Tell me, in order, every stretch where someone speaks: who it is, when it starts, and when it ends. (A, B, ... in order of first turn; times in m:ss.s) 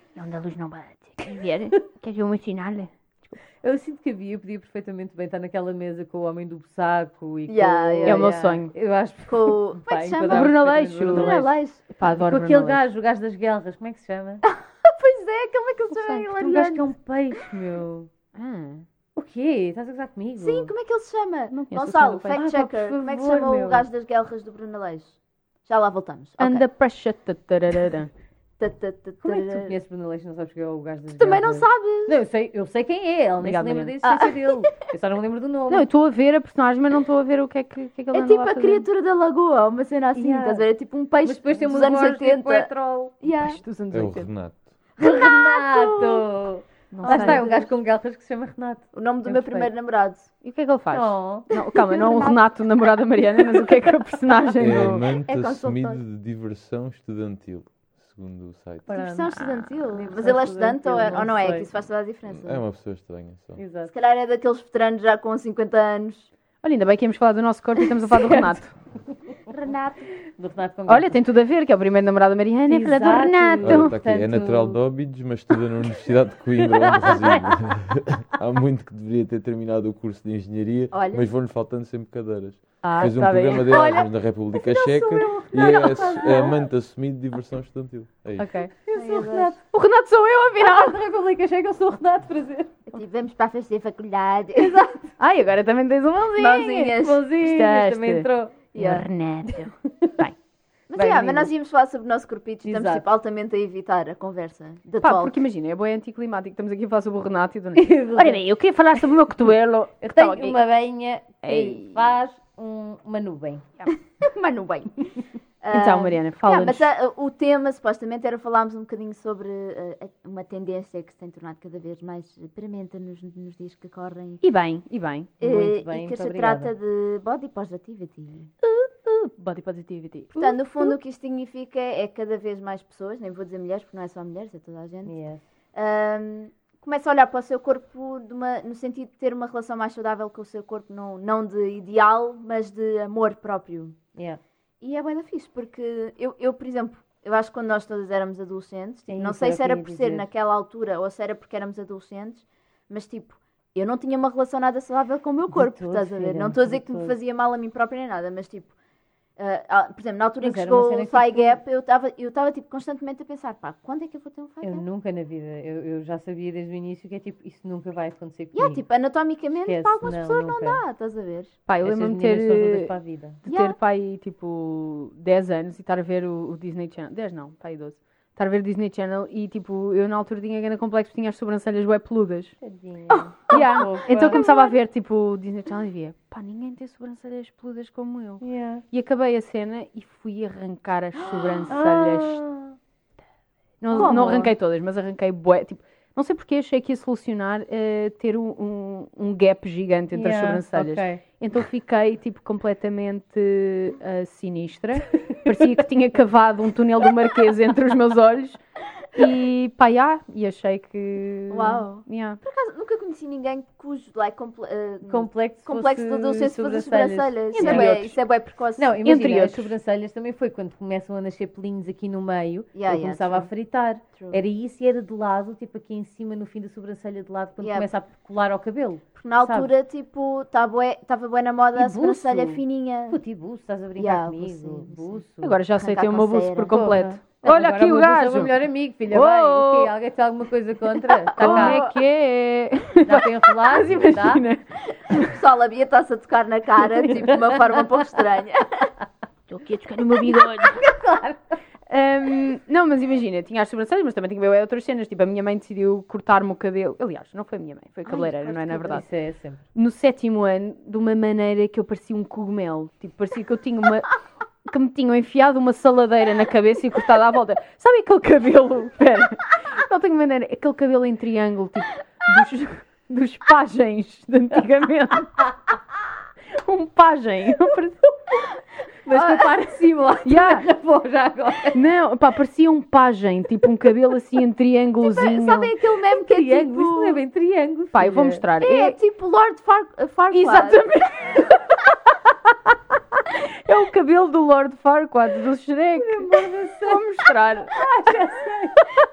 0:00.2-0:03.4 A
0:03.6-0:14.4 B
0:07.5-0:08.3 C
0:08.0-0:08.7 A
0:09.3-0:10.5 C
0:10.3-0:12.8 A
0:11.1-0:11.9 C
0:14.5-0:16.8 C
0:16.4-0:18.1 B
0:18.4-0:18.8 A
0:19.2-0:20.7 B
0:20.4-0:26.6 C
0:21.5-0:22.4 A
0:22.3-0:23.9 B
0:26.4-0:28.1 A
0:28.6-0:29.8 C
0:29.2-0:35.8 B
0:31.1-0:32.2 C
0:33.4-0:33.9 A
0:34.0-0:34.7 C
0:35.7-0:38.8 A
0:38.1-0:42.7 C
0:40.2-0:40.7 B
0:41.2-0:43.1 B
0:43.2-0:43.6 C
0:43.4-0:44.3 A
0:43.9-0:44.8 D
0:45.0-0:46.2 C
0:45.0-0:49.7 B
0:46.9-0:47.6 A
0:47.0-0:47.7 C
0:48.9-0:50.3 C
0:50.4-0:55.1 A
0:50.9-0:51.5 B
0:51.5-0:52.4 C
0:54.6-0:59.1 D
0:54.7-0:56.0 C
0:58.9-0:59.4 B
0:58.9-1:02.6 C
0:59.3-0:59.8 A
0:59.9-1:01.7 B
1:02.3-1:03.6 D
1:03.6-1:03.9 B
1:03.9-1:06.3 C
1:06.6-1:08.7 A
1:08.1-1:09.3 B
1:09.5-1:10.0 C
1:10.4-1:11.2 B
1:10.9-1:13.9 A
1:12.7-1:14.8 B
1:13.6-1:28.7 D
1:16.8-1:17.6 B
1:20.9-1:21.3 C
1:22.8-1:23.9 A
1:23.5-1:26.6 B
1:28.4-1:28.7 A
1:28.9-1:29.6 B
1:28.9-1:29.6 C
1:29.7-1:31.0 A
1:30.6-1:32.7 B
1:32.9-1:34.9 C
1:34.6-1:34.9 B
1:35.2-1:40.3 A
1:36.4-1:37.2 C
1:37.0-1:38.6 B
1:38.8-1:39.0 C
1:40.9-1:45.4 C
1:40.9-1:41.5 B
1:42.6-1:43.1 B
1:45.0-1:50.6 A
1:47.8-1:48.4 B
1:50.0-1:53.6 B
1:51.4-1:52.0 A
1:54.2-1:55.1 C
1:55.6-2:04.4 C
1:55.7-1:56.9 A
2:04.4-2:05.4 A
2:05.4-2:08.5 C
2:05.4-2:06.7 B
2:08.6-2:10.9 A
2:10.4-2:15.2 C
2:15.1-2:15.4 B
2:15.7-2:24.0 C
2:24.2-2:24.4 B
2:24.8-2:38.7 C
2:29.1-2:30.3 B
2:35.5-2:37.2 B
2:39.4-2:44.8 C
2:40.4-2:41.6 B
2:44.6-2:48.8 B
2:48.5-2:51.6 C
2:49.7-2:50.8 B
2:51.7-2:52.9 A
2:51.8-2:53.4 B
2:53.4-3:02.6 A
2:53.5-2:53.8 C
3:02.6-3:04.4 B
3:03.1-3:04.8 C
3:03.5-3:12.4 A
3:08.4-3:08.8 B
3:11.2-3:11.7 C
3:11.7-3:12.8 B
3:13.8-3:28.6 A
3:13.9-3:14.5 B
3:13.9-3:14.5 C
3:20.1-3:21.2 B
3:29.1-3:32.4 A
3:31.5-3:39.1 C
3:35.0-3:38.0 B
3:37.5-3:38.2 A
3:38.8-3:49.7 B
3:39.0-3:39.7 A
3:42.7-3:43.5 C
3:44.1-3:44.4 C
3:47.6-3:47.9 C
3:49.2-3:53.2 C
3:51.8-3:55.6 B
3:54.0-3:55.2 C
3:55.4-3:58.5 A
3:55.8-3:56.7 C
3:56.7-4:01.8 B
3:59.1-3:59.9 A
4:01.4-4:02.0 C
4:01.4-4:05.4 A
4:03.0-4:04.4 B
4:05.1-4:08.9 C
4:07.0-4:07.3 A
4:09.5-4:10.8 A
4:10.6-4:11.6 B
4:11.9-4:19.1 A
4:18.1-4:19.6 B
4:19.7-4:35.5 A
4:36.5-4:38.4 A
4:39.1-4:39.7 C
4:39.1-4:41.8 B
4:40.2-4:40.6 A
4:41.7-4:45.7 A
4:45.0-4:47.2 C
4:46.1-4:48.4 B
4:47.9-4:49.0 A
4:48.6-4:50.8 C
4:50.3-4:51.8 A
4:52.7-4:57.7 A
4:56.0-4:57.1 B
4:57.7-4:58.8 B